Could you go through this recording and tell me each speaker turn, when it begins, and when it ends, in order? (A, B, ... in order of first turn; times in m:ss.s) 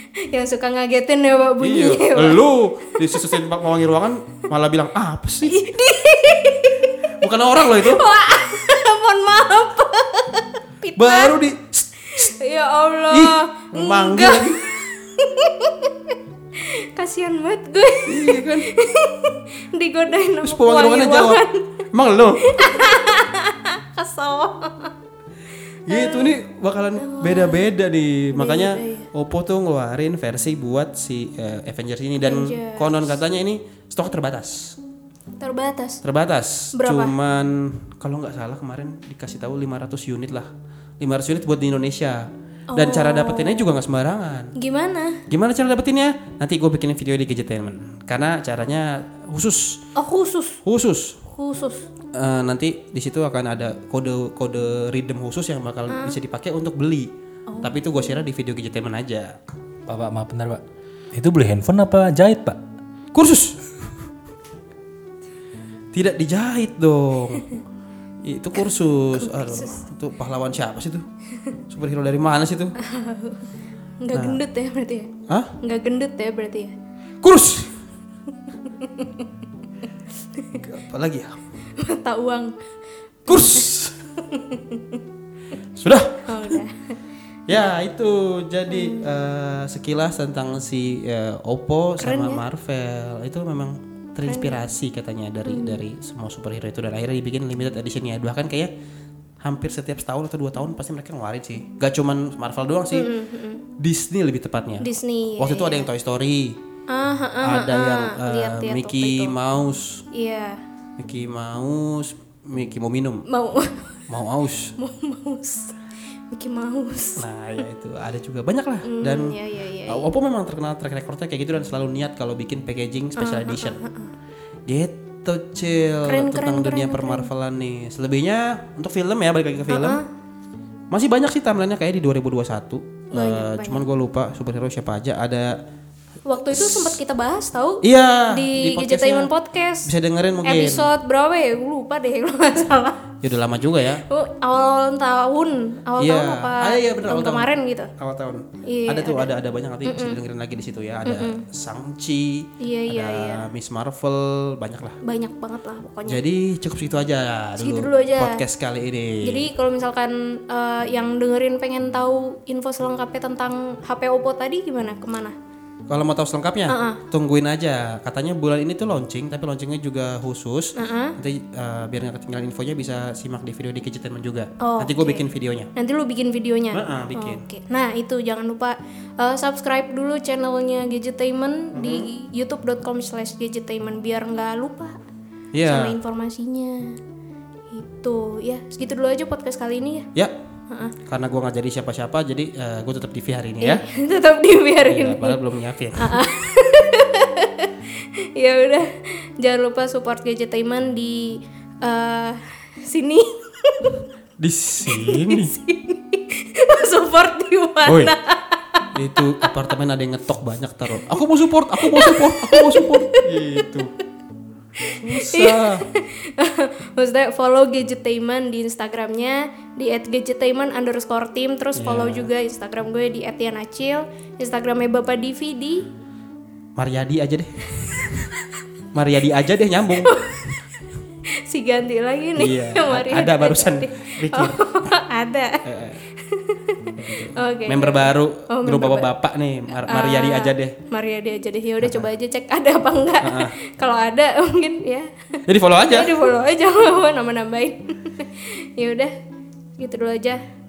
0:00.3-0:02.4 A
0:01.6-0:05.6 B
0:03.0-0:03.4 A
0:05.4-0:06.9 A
0:07.0-0:08.0 B
0:07.6-0:11.4 A
0:11.0-0:12.3 B
0:12.0-0:21.6 A
0:13.1-0:14.6 B
0:18.0-0:18.7 B
0:20.4-0:22.8 B
0:22.4-0:24.9 A
0:25.9-0:26.4 A
0:25.9-0:34.8 B
0:27.0-0:27.7 A
0:28.3-0:29.1 A
0:32.2-0:33.1 A
0:35.4-0:36.0 A
0:36.0-0:40.5 B
0:36.7-0:37.2 A
0:41.0-0:44.5 B
0:42.7-0:43.8 A
0:44.6-0:45.2 A
0:45.3-0:49.8 B
0:50.0-0:50.6 A
0:50.6-0:51.2 B
0:51.3-0:51.9 A
0:52.1-0:57.1 B
0:55.9-0:56.2 A
0:57.5-0:58.2 A
0:57.6-0:59.4 B
0:59.9-1:02.6 C
1:03.1-1:03.6 B
1:05.9-1:07.6 B
1:08.2-1:11.0 B
1:09.0-1:09.8 A
1:11.7-1:12.8 B
1:12.8-1:13.4 A
1:14.0-1:16.8 A
1:14.1-1:14.4 B
1:15.3-1:15.5 B
1:17.2-1:17.7 B
1:18.7-1:19.3 A
1:20.3-1:20.6 A
1:20.5-1:21.4 B
1:21.8-1:22.5 A
1:23.2-1:25.0 A
1:23.3-1:24.0 B
1:25.8-1:26.6 B
1:26.2-1:26.9 A
1:27.5-1:38.7 B
1:28.7-1:29.2 A
1:32.0-1:32.4 A
1:34.3-1:34.6 A
1:35.4-1:35.8 A
1:39.4-1:43.1 B
1:42.9-1:43.6 A
1:43.8-1:46.6 B
1:44.8-1:45.9 A
1:46.9-1:49.4 A
1:47.4-1:50.0 B
1:50.1-1:50.6 A
1:51.0-1:53.2 B
1:53.3-1:54.0 A
1:54.1-1:54.8 B
1:54.8-1:55.7 A
1:56.3-1:57.6 A
1:57.2-2:03.8 B
1:58.8-2:00.1 A
2:03.2-2:04.1 A
2:04.7-2:10.0 B
2:06.0-2:07.3 A
2:09.7-2:10.0 A
2:10.9-2:15.6 B
2:13.1-2:13.8 A
2:16.2-2:19.9 A
2:16.4-2:17.0 B
2:17.8-2:19.3 B
2:19.8-2:20.9 B
2:20.4-2:23.0 A
2:23.2-2:24.0 B
2:24.1-2:27.9 A
2:26.0-2:35.0 B
2:28.6-2:30.2 A
2:31.0-2:31.4 A
2:32.6-2:33.5 A
2:35.0-2:36.2 A
2:36.0-2:39.5 B
2:37.6-2:38.4 A
2:39.2-2:45.3 A
2:45.9-2:55.7 B
2:46.7-2:47.0 A
2:50.8-2:51.2 A
2:54.6-3:05.0 A
2:56.7-2:57.4 B
3:01.7-3:02.1 B
3:05.5-3:06.0 B
3:05.6-3:07.0 A
3:07.7-3:10.1 A
3:11.0-3:13.8 B
3:13.6-3:15.4 A
3:14.8-3:16.2 B
3:15.9-3:24.0 A
3:24.4-3:25.5 B
3:24.8-3:28.6 A
3:27.8-3:28.1 B
3:28.9-3:33.9 B
3:29.2-3:29.5 A
3:31.8-3:33.7 A
3:34.8-3:45.9 A
3:34.8-3:35.9 B
3:41.8-3:42.3 B
3:46.8-3:48.3 B
3:47.7-3:48.3 A
3:48.9-3:50.2 B
3:50.0-3:50.6 A
3:51.4-3:59.1 A
3:52.3-3:54.7 B
3:55.6-3:56.0 B
3:56.9-4:00.8 B
3:59.7-4:09.1 A
4:01.8-4:02.1 B
4:03.2-4:03.6 B
4:05.4-4:06.2 B
4:09.8-4:10.4 A